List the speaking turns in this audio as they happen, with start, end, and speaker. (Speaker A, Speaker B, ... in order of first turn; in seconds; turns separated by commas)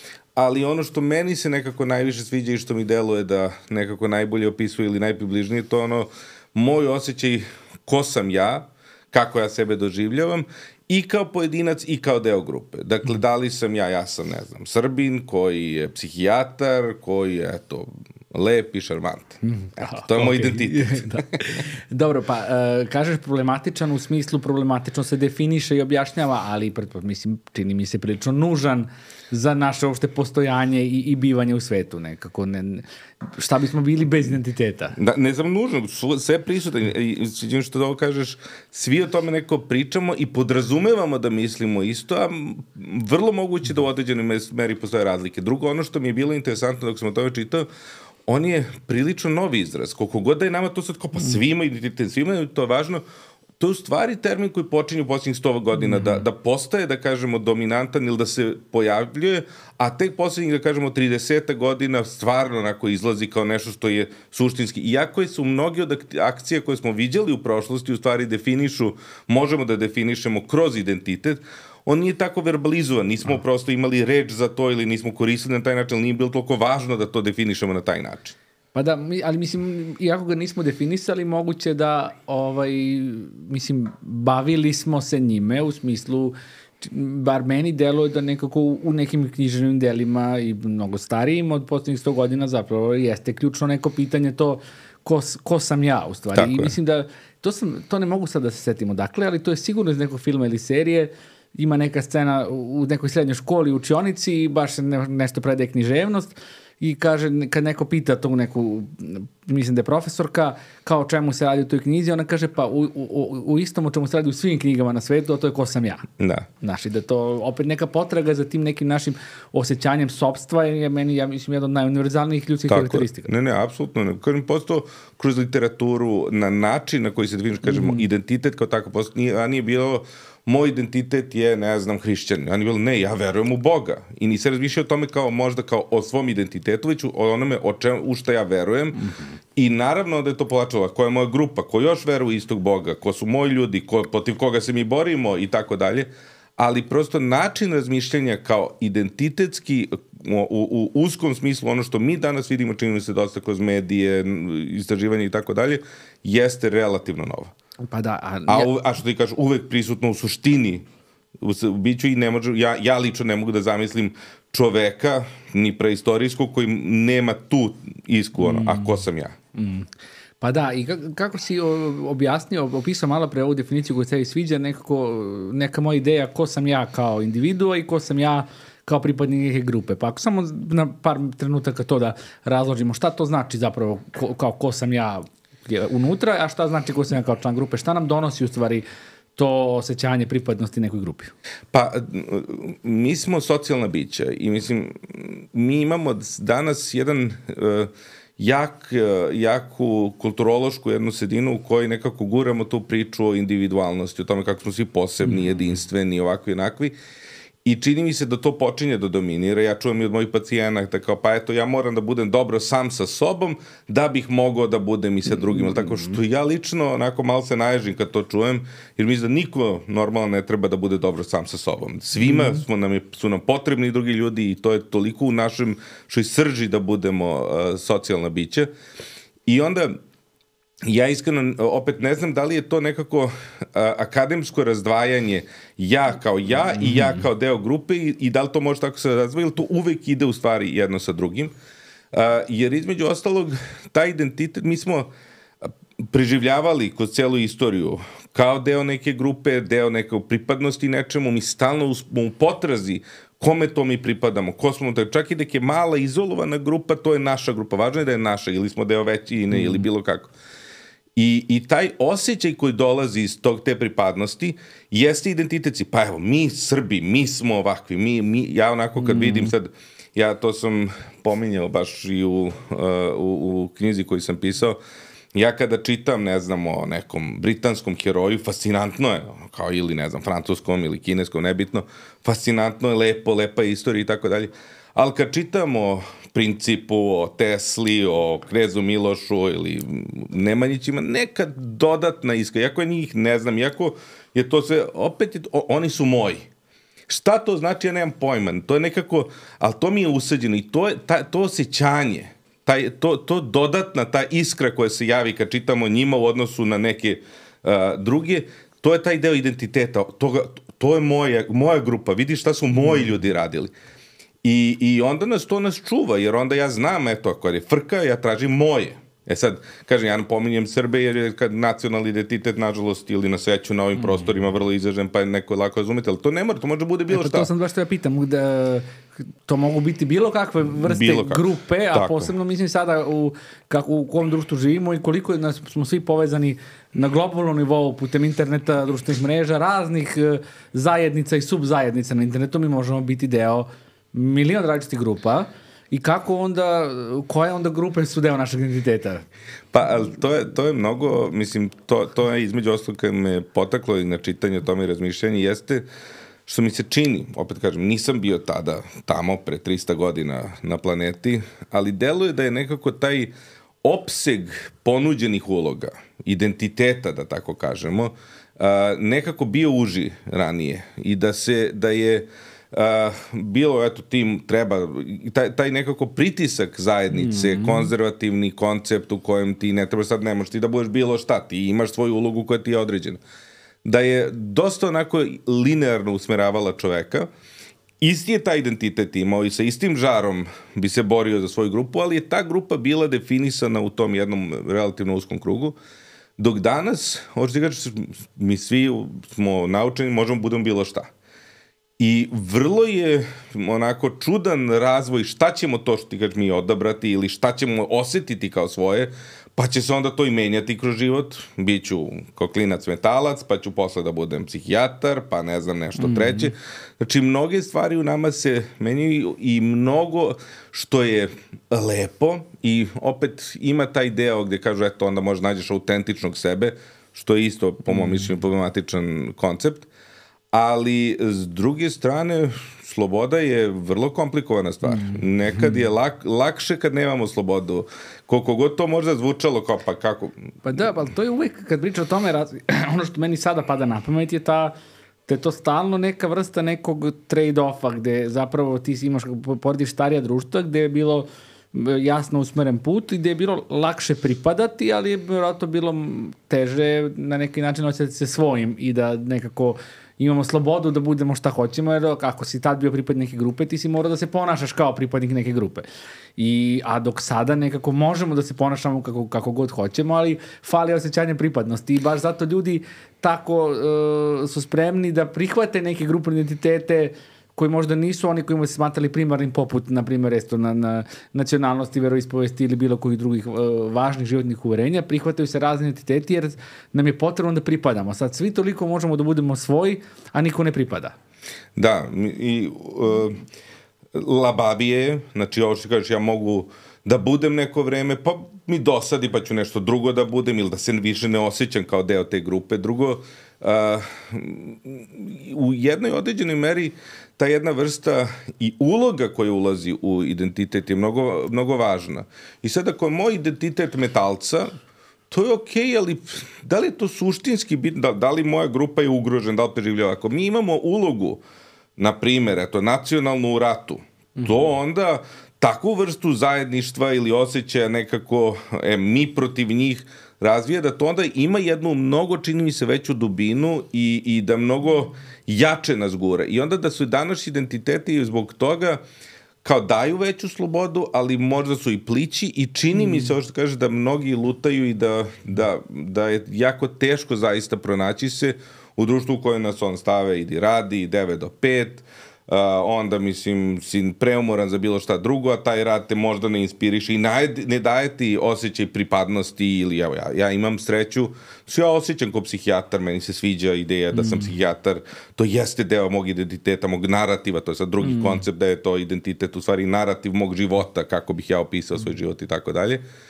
Speaker A: 0.4-19.4, Speaker B: 19.4-35.0, Speaker A: 19.9-21.2, Speaker A: 35.0-47.7, Speaker A: 48.3-53.0, Speaker A: 53.6-78.4, Speaker B: 78.7-116.1, Speaker A: 96.3-96.7, Speaker A: 116.2-116.5, Speaker B: 116.6-123.3, Speaker A: 122.7-157.5, Speaker B: 127.7-128.1, Speaker B: 139.1-139.3, Speaker B: 157.9-158.7, Speaker A: 158.5-160.8, Speaker A: 161.4-169.3, Speaker B: 168.4-169.0, Speaker B: 169.6-169.9, Speaker B: 170.4-188.8, Speaker B: 189.4-191.3, Speaker A: 191.7-206.9, Speaker A: 207.7-228.7, Speaker A: 229.5-230.0, Speaker A: 230.8-241.5, Speaker B: 236.8-237.2, Speaker A: 242.1-245.1, Speaker A: 245.7-260.3, Speaker B: 259.5-259.9, Speaker A: 261.2-274.8, Speaker B: 269.0-269.5, Speaker A: 275.4-296.5, Speaker A: 297.1-313.7, Speaker A: 314.4-327.5, Speaker B: 327.1-328.9, Speaker B: 329.5-349.2, Speaker A: 330.8-332.3, Speaker A: 349.7-355.9, Speaker A: 356.5-383.2, Speaker B: 377.1-377.9, Speaker A: 383.8-387.3, Speaker A: 388.0-395.8, Speaker A: 396.4-401.1, Speaker A: 402.0-429.9, Speaker B: 416.0-416.5, Speaker A: 430.5-440.5, Speaker B: 434.9-435.8, Speaker B: 440.6-444.7, Speaker B: 445.3-465.9, Speaker B: 466.4-491.1, Speaker A: 491.8-493.4, Speaker A: 494.1-514.7, Speaker A: 515.3-521.4, Speaker A: 522.0-539.0, Speaker A: 539.6-573.0, Speaker B: 564.2-564.5, Speaker B: 568.0-568.4